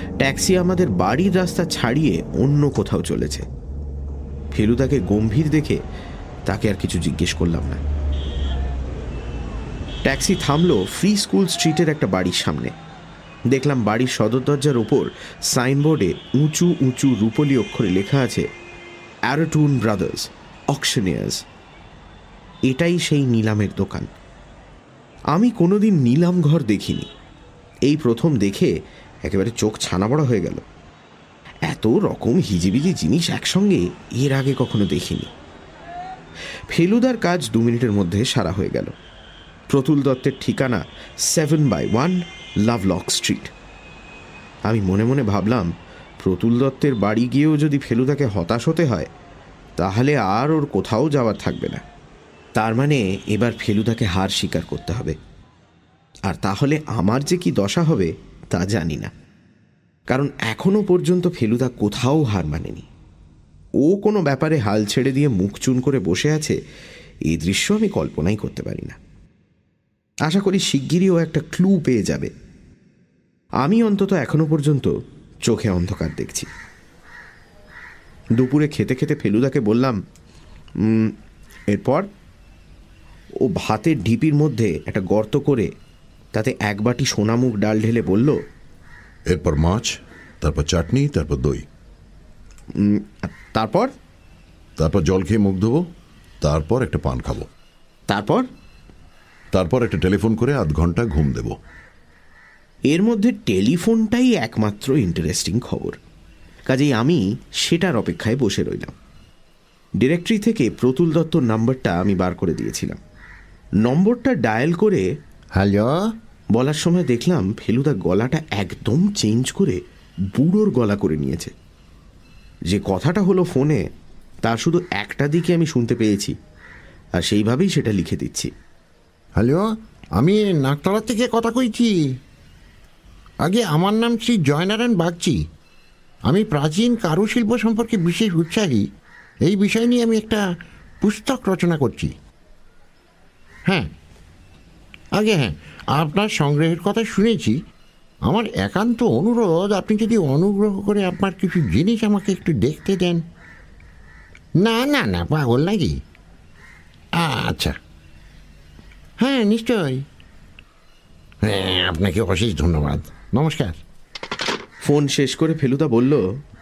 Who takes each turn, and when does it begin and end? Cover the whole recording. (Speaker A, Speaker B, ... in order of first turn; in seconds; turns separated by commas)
Speaker A: 0.2-3.5, Speaker A: 4.5-5.8, Speaker A: 6.5-7.8, Speaker A: 10.0-12.7, Speaker A: 13.5-18.5, Speaker A: 19.3-21.4, Speaker A: 22.7-24.1, Speaker A: 25.3-27.1, Speaker A: 27.9-28.7, Speaker A: 29.2-30.6, Speaker A: 31.7-35.3, Speaker A: 36.7-38.9, Speaker A: 39.7-43.5, Speaker A: 44.7-49.1, Speaker A: 49.8-51.8, Speaker A: 52.5-55.1, Speaker A: 56.3-59.1, Speaker A: 60.1-62.9, Speaker A: 63.8-66.6, Speaker A: 67.3-69.0, Speaker A: 70.3-72.3, Speaker A: 73.6-74.9, Speaker A: 75.5-76.5, Speaker A: 78.4-80.0, Speaker A: 80.8-81.1, Speaker A: 81.7-82.1, Speaker A: 83.4-85.7, Speaker A: 86.3-88.4, Speaker B: 89.3-91.6, Speaker A: 92.8-93.9, Speaker B: 94.8-95.8, Speaker B: 96.4-97.5, Speaker A: 98.1-98.5, Speaker B: 99.5-101.6, Speaker A: 102.9-106.0, Speaker A: 106.7-108.9, Speaker A: 110.0-113.0, Speaker A: 113.8-115.1, Speaker C: 115.5-116.1, Speaker A: 116.5-119.8, Speaker A: 120.3-121.5, Speaker A: 122.7-123.8, Speaker A: 124.4-126.3, Speaker A: 127.2-128.5, Speaker C: 129.4-132.0, Speaker C: 133.4-135.4, Speaker C: 136.3-138.8, Speaker C: 139.4-140.4, Speaker C: 141.0-142.1, Speaker C: 145.1-147.6, Speaker C: 148.2-153.2, Speaker C: 154.6-156.0, Speaker C: 157.2-157.8, Speaker C: 159.2-160.0, Speaker C: 161.4-163.8, Speaker A: 164.8-166.2